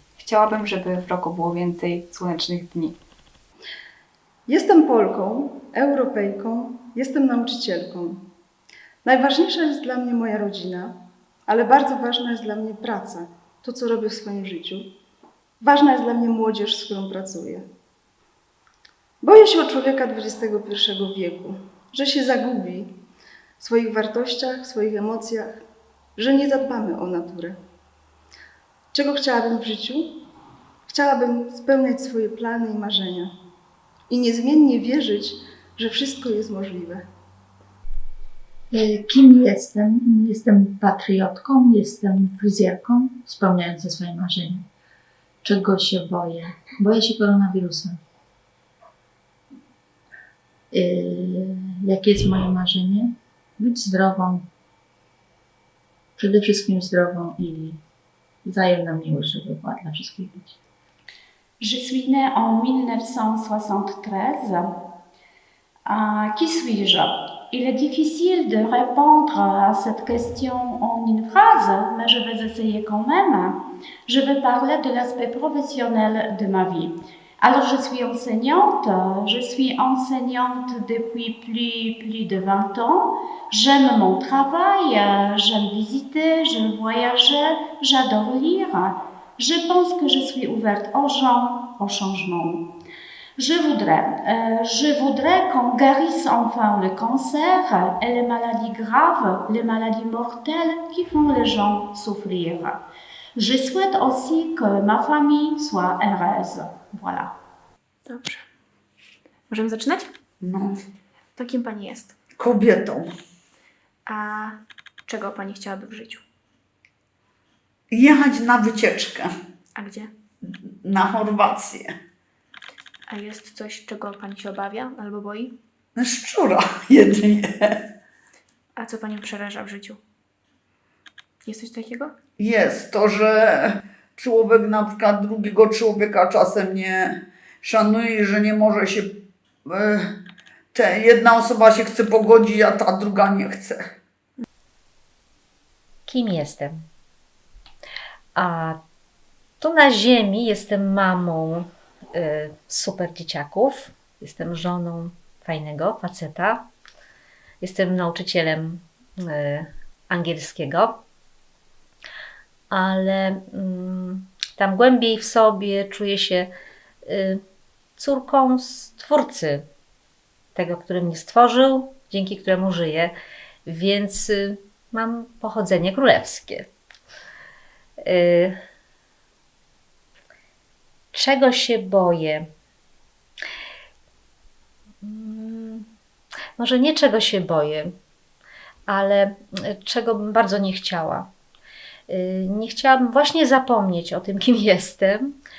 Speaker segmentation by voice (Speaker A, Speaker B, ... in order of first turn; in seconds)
Speaker A: 0.2-3.0
Speaker B: 4.5-8.3, 9.1-14.9, 15.6-17.6, 19.2-22.9, 23.6-25.6, 26.2-27.6, 28.9-30.2, 30.9-33.3, 34.1-37.0
Speaker C: 38.7-44.6, 45.4-48.0, 50.7-54.5, 56.2-57.8, 58.5-60.5
Speaker D: 61.6-64.7, 65.9-92.8, 93.4-102.8, 103.4-107.3
Speaker E: 108.1-108.4, 109.5-110.1, 111.4-112.1, 114.1-116.2, 119.8-120.1, 123.1-125.5, 128.8-130.0, 131.4-132.1
Speaker F: 110.4-110.8, 112.4-113.1, 117.9-119.3, 120.8-121.9, 126.0-127.8, 132.4-140.1, 140.7-143.8
Speaker G: 146.1-146.8, 148.4-148.8, 149.6-156.7, 157.6-161.0, 162.7-166.5, 167.1-167.4, 168.0-169.7, 170.6-173.1, 173.7-176.7, 178.0-178.6, 181.1-182.5, 185.0-185.9, 186.6-187.9, 188.9-191.3, 192.1-195.4